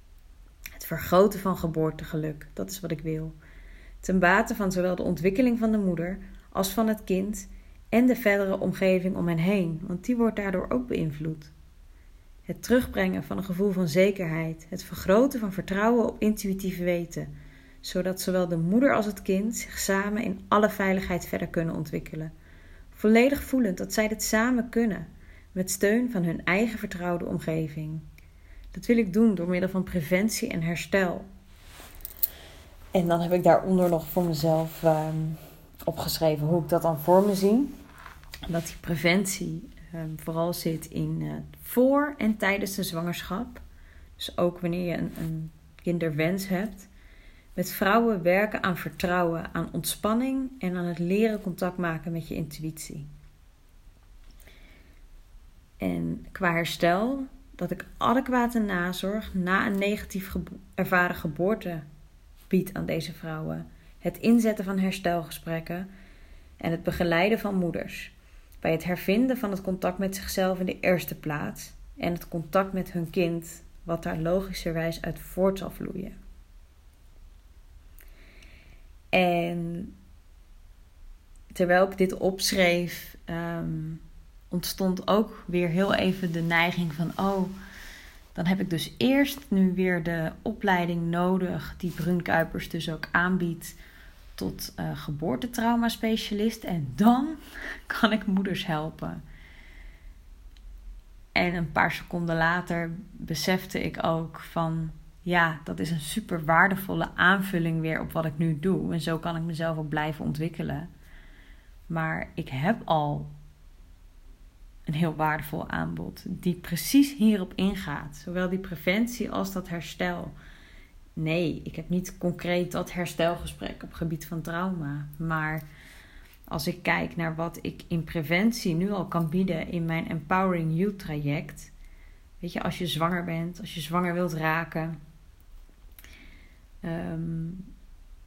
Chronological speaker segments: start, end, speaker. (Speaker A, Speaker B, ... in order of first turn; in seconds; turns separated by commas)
Speaker A: 0.8-3.4, Speaker A: 4.0-11.5, Speaker A: 12.5-17.3, Speaker A: 17.8-22.3, Speaker A: 22.9-28.1, Speaker A: 28.7-31.3, Speaker A: 32.9-37.7, Speaker A: 38.5-43.6, Speaker A: 44.2-46.9, Speaker A: 47.5-53.1, Speaker A: 55.8-61.8, Speaker A: 62.5-65.9, Speaker A: 66.6-76.2, Speaker A: 79.1-79.9, Speaker A: 81.5-87.5, Speaker A: 88.3-93.8, Speaker A: 94.4-99.2, Speaker A: 101.3-110.9, Speaker A: 111.9-113.3, Speaker A: 114.9-120.3, Speaker A: 121.2-125.6, Speaker A: 126.5-131.7, Speaker A: 132.4-135.0, Speaker A: 136.8-137.7